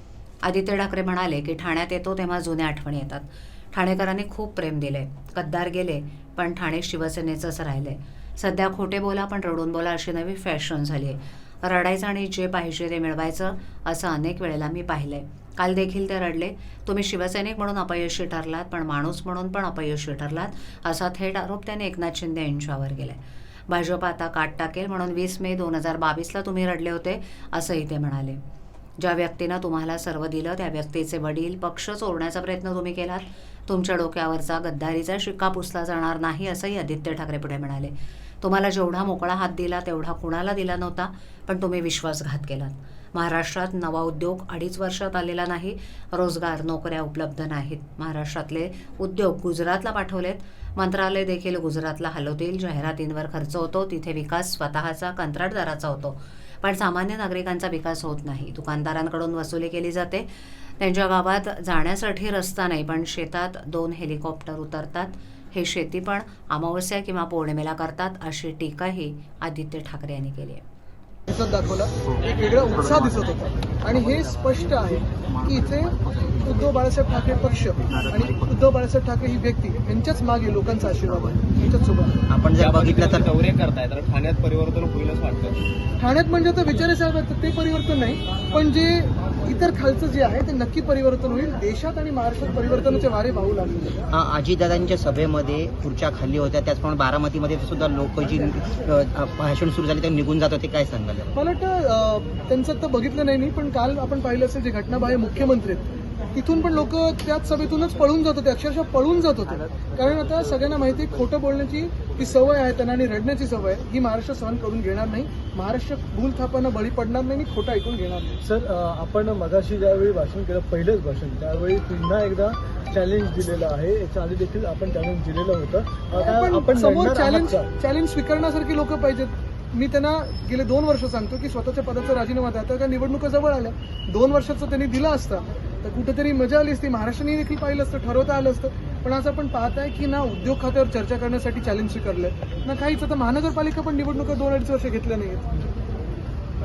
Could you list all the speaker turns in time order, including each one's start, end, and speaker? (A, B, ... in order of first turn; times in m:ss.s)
0:00.4-0:28.4 A
0:29.0-1:00.3 A
1:00.8-1:10.6 A
1:11.3-1:22.2 B
1:22.3-1:23.3 C
1:22.6-1:25.6 D
1:26.0-1:34.0 B
1:34.1-1:41.3 C
1:41.4-1:58.3 B
1:58.4-2:07.7 E
2:06.2-2:25.5 B